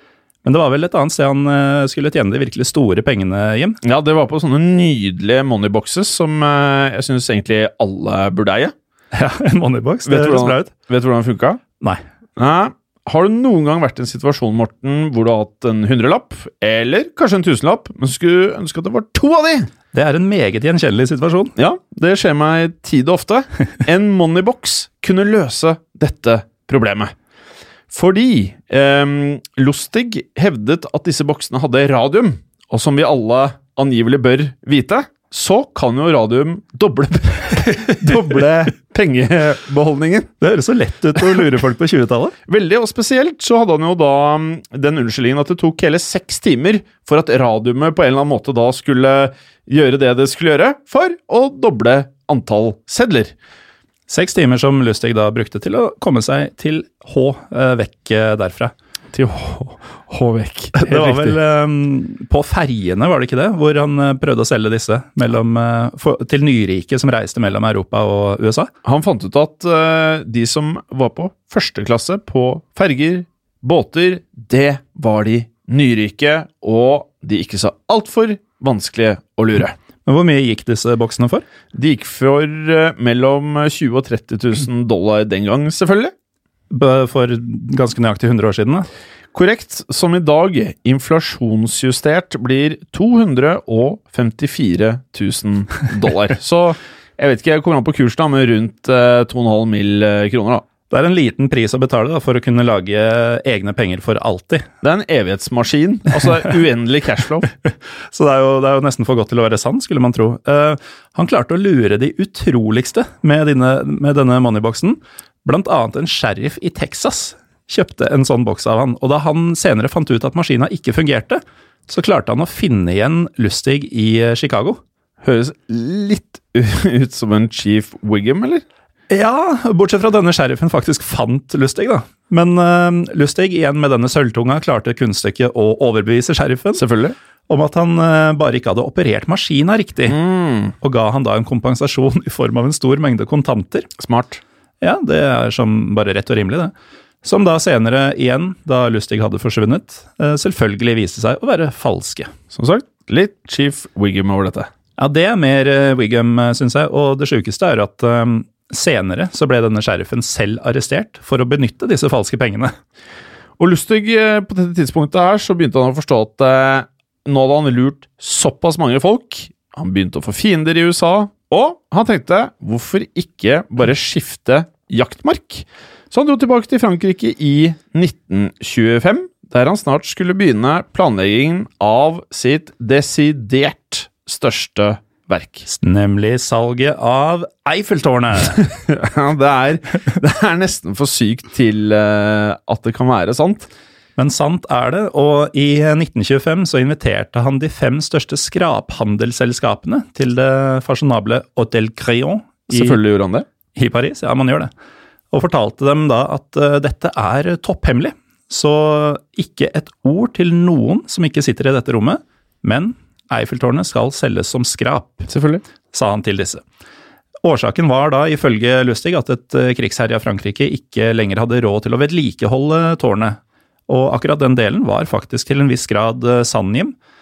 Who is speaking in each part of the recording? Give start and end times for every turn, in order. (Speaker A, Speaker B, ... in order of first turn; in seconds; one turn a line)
Speaker A: 0.5-3.8
Speaker B: 3.8-8.7
Speaker A: 9.1-10.7
Speaker B: 10.1-11.6
Speaker B: 12.4-19.7
Speaker A: 19.9-21.5
Speaker B: 21.6-27.1
Speaker B: 27.9-40.3
Speaker A: 37.6-38.3
Speaker A: 40.4-42.4
Speaker B: 42.5-53.3
Speaker A: 54.1-58.7
Speaker B: 59.1-61.4
Speaker A: 60.8-68.7
Speaker B: 68.8-79.8
Speaker A: 80.1-81.5
Speaker B: 81.7-86.1
Speaker A: 86.7-88.9
Speaker B: 89.3-100.7
Speaker A: 100.9-104.7
Speaker B: 104.8-107.5
Speaker A: 107.7-124.8
Speaker B: 125.2-128.6
Speaker A: 129.1-136.8
Speaker B: 136.8-137.2
Speaker A: 137.5-140.2
Speaker B: 140.1-140.7
Speaker A: 140.8-143.9
Speaker B: 144.0-144.4
Speaker A: 144.8-152.3
Speaker B: 152.5-154.7
Speaker A: 155.0-162.7
Speaker B: 163.6-185.7
Speaker A: 185.7-188.7
Speaker B: 188.7-193.7
Speaker A: 194.2-203.0
Speaker B: 202.7-203.5
Speaker A: 203.8-204.7
Speaker A: 205.3-215.3
Speaker B: 215.3-215.6
Speaker A: 215.9-216.6
Speaker A: 217.4-226.9